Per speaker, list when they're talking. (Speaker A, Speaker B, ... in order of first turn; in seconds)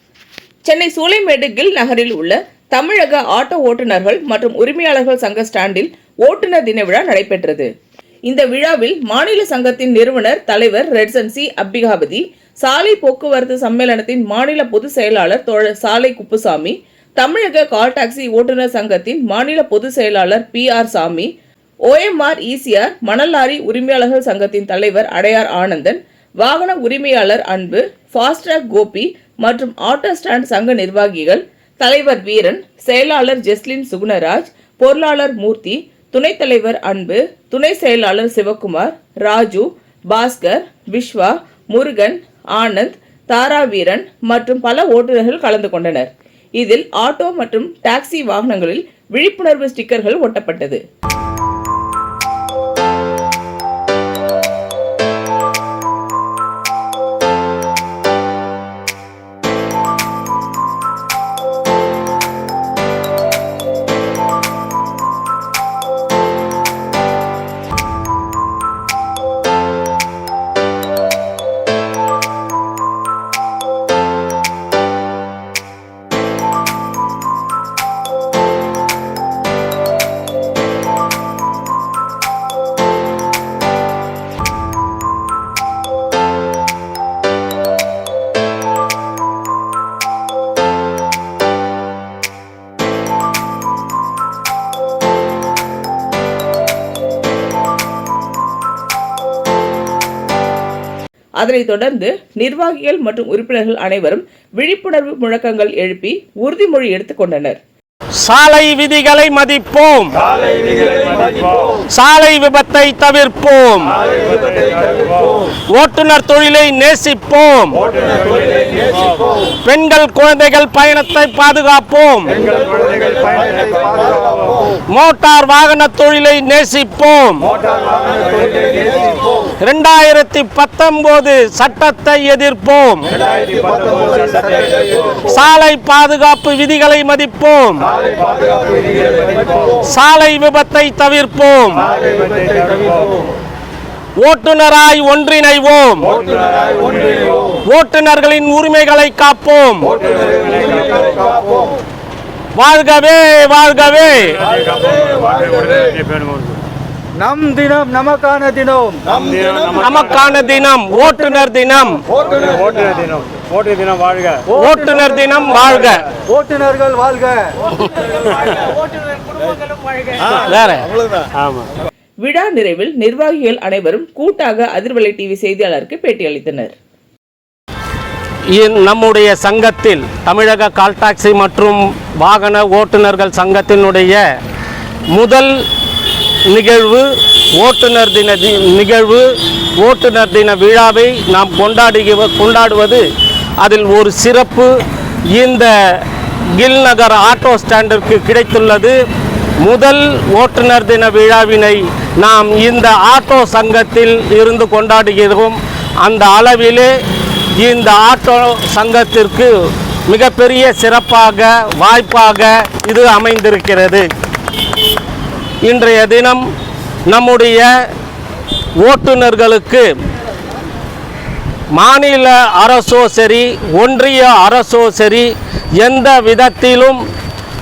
Speaker A: 0.7-7.7, 8.3-21.3, 21.9-50.8, 101.4-107.6, 172.2-176.8
Speaker B: 108.2-110.1, 111.0-114.0, 115.7-118.7, 119.6-124.0, 124.9-127.5, 128.3-129.0, 129.6-133.1, 133.7-134.5, 135.1-137.9, 139.3-142.9, 144.2-151.0, 152.6-154.6, 159.8-162.0, 164.5-166.0, 170.3-170.9, 178.5-184.2, 185.1-185.6, 186.5-193.1, 193.6-194.7, 195.3-196.1, 196.6-199.0, 199.6-206.9, 207.6-209.5, 210.1-214.1, 215.6-216.4, 217.1-217.7, 218.8-219.9, 221.8-227.0
Speaker C: 155.3-156.6, 159.2-159.8, 162.3-164.4, 171.4-171.7
Speaker D: 157.2-159.1, 164.6-165.2, 166.3-167.5